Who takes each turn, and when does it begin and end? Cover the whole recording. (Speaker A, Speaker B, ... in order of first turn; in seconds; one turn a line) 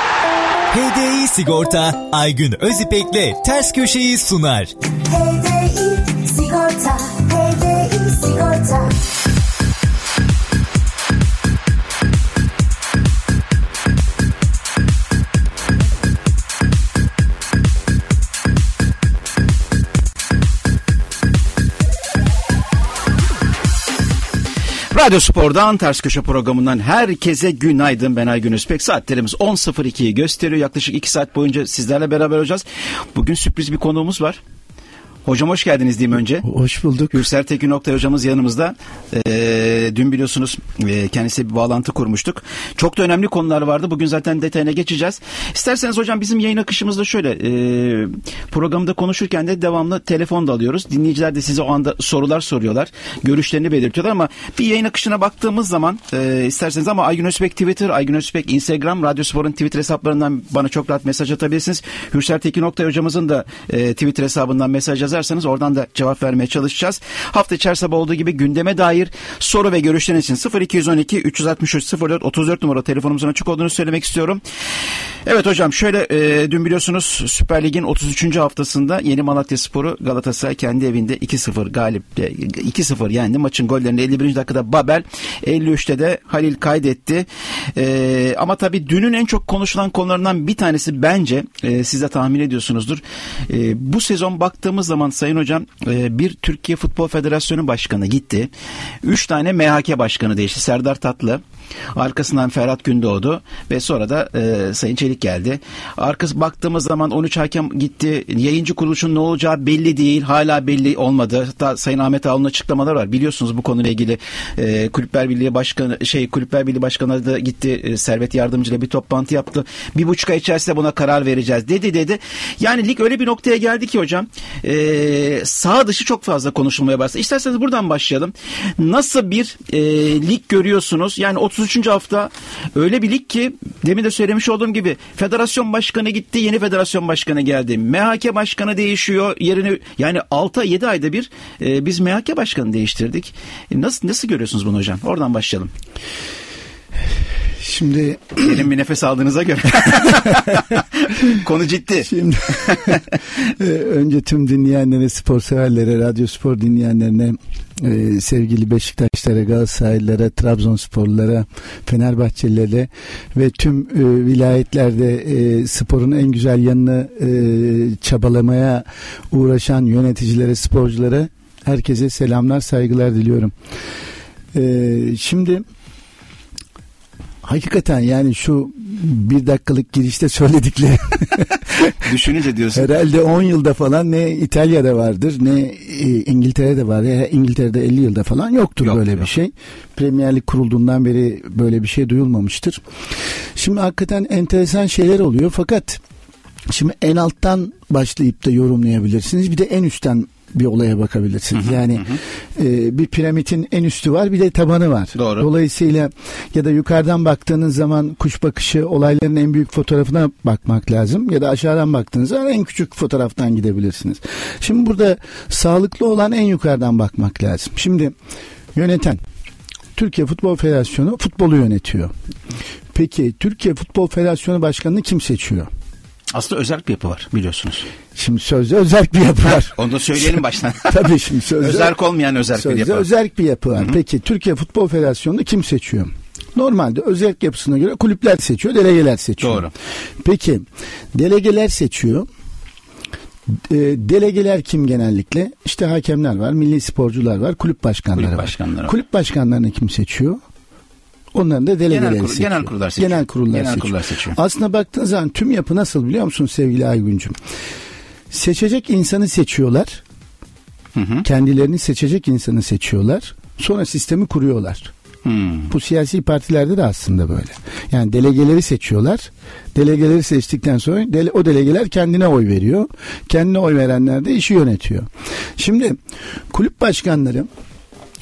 Speaker A: 0.7-9.1
Speaker B: 24.9-34.4
Speaker B: 35.3-36.5
Speaker C: 36.4-37.2
Speaker B: 37.1-74.4
Speaker B: 75.2-98.5
Speaker B: 99.0-101.4
Speaker B: 102.0-145.7
Speaker C: 147.6-148.7
Speaker B: 148.4-153.0
Speaker C: 152.1-173.5
Speaker C: 174.5-175.6
Speaker C: 177.4-181.9
Speaker B: 181.9-183.1
Speaker C: 182.8-192.8
Speaker B: 188.8-189.3
Speaker C: 193.6-196.0
Speaker C: 196.7-218.2
Speaker B: 201.5-202.2
Speaker B: 205.2-205.5
Speaker C: 218.7-219.2
Speaker C: 220.0-222.1
Speaker C: 222.9-225.7
Speaker B: 226.3-227.9
Speaker C: 228.2-232.0
Speaker B: 229.7-233.1
Speaker C: 232.5-239.7
Speaker B: 239.4-239.7
Speaker C: 240.2-242.3
Speaker C: 243.5-250.4
Speaker B: 248.2-248.9
Speaker C: 251.3-257.4
Speaker B: 251.9-254.4
Speaker C: 258.3-260.0
Speaker B: 260.9-261.3
Speaker C: 261.2-264.9
Speaker B: 265.2-265.7
Speaker C: 265.7-276.0
Speaker C: 276.5-277.5